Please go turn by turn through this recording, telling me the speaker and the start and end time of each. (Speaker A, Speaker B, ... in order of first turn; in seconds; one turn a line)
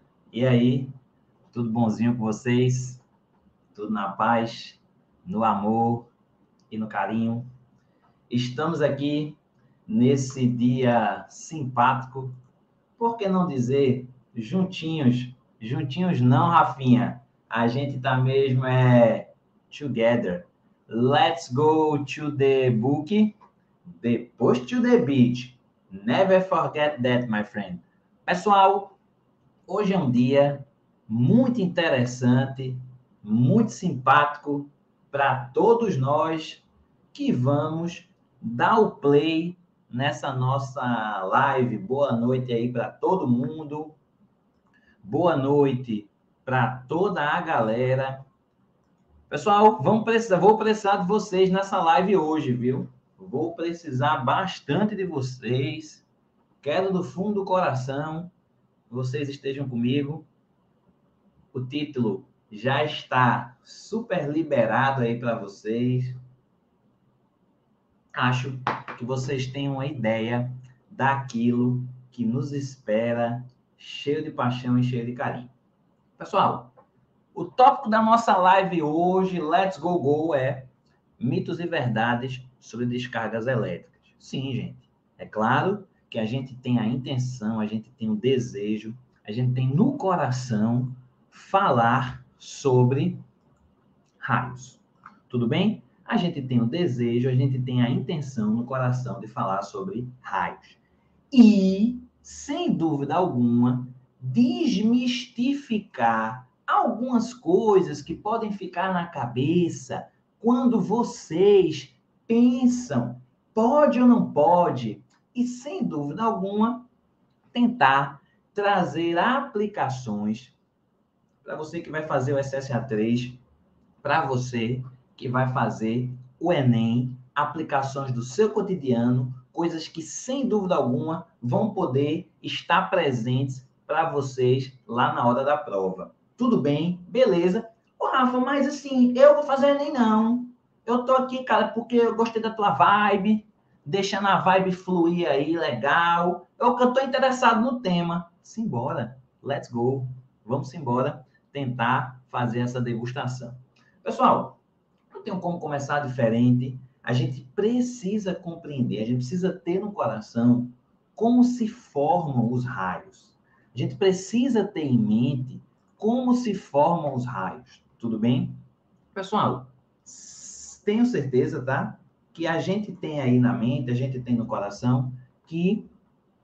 Speaker A: 0.3-0.9
Speaker A: 1.5-3.0
Speaker A: 3.7-6.1
Speaker A: 6.7-7.5
Speaker A: 8.3-12.4
Speaker A: 13.0-29.0
Speaker A: 29.7-44.0
Speaker A: 45.0-48.2
Speaker A: 49.3-56.1
Speaker A: 56.6-58.3
Speaker A: 58.9-60.3
Speaker A: 61.5-66.2
Speaker A: 68.2-75.5
Speaker A: 76.2-76.7
Speaker A: 77.3-93.2
Speaker A: 94.2-100.8
Speaker A: 101.3-116.9
Speaker A: 117.5-120.5
Speaker A: 121.4-123.4
Speaker A: 124.0-154.6
Speaker A: 155.1-168.6
Speaker A: 169.2-175.9